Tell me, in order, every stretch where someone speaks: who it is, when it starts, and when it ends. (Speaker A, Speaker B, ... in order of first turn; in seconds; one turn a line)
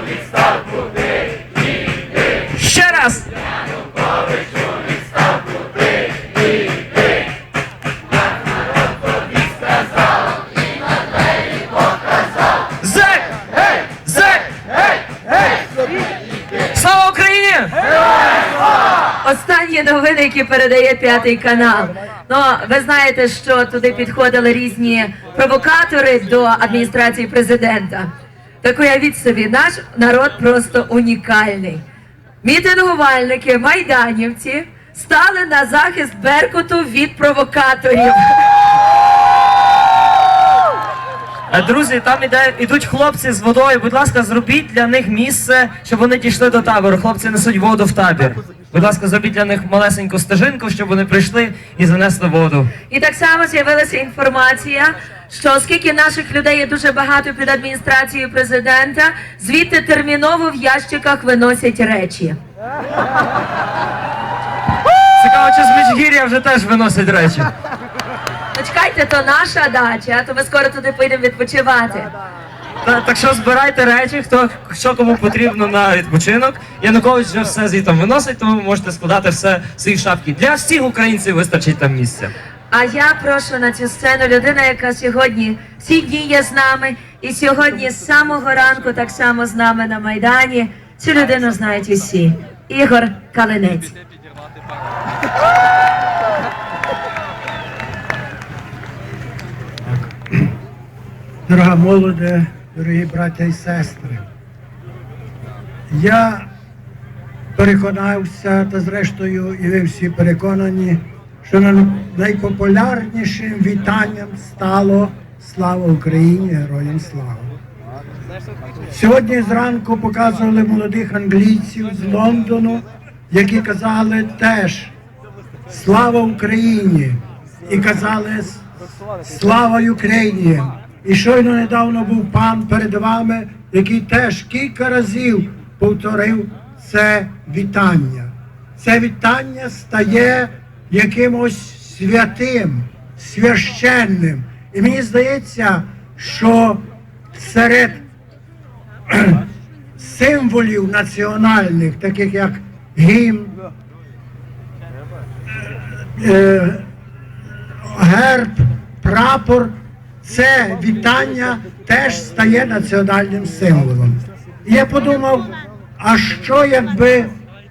Speaker A: 2.5-3.3
Speaker A: 12.8-13.3
Speaker A: 14.0-14.4
Speaker A: 16.7-17.8
Speaker B: 19.2-28.1
Speaker B: 28.6-31.8
Speaker B: 32.4-38.4
Speaker A: 41.5-52.7
Speaker B: 52.9-62.4
Speaker A: 65.2-67.5
Speaker B: 68.5-72.1
Speaker A: 72.8-82.3
Speaker B: 82.7-93.9
Speaker C: 101.5-104.2
Speaker C: 105.9-106.5
Speaker C: 107.5-117.5
Speaker C: 118.9-124.9
Speaker C: 125.7-128.6
Speaker C: 129.2-148.1
Speaker C: 149.1-149.4
Speaker C: 150.0-153.6
Speaker C: 156.1-156.8
Speaker C: 157.8-167.3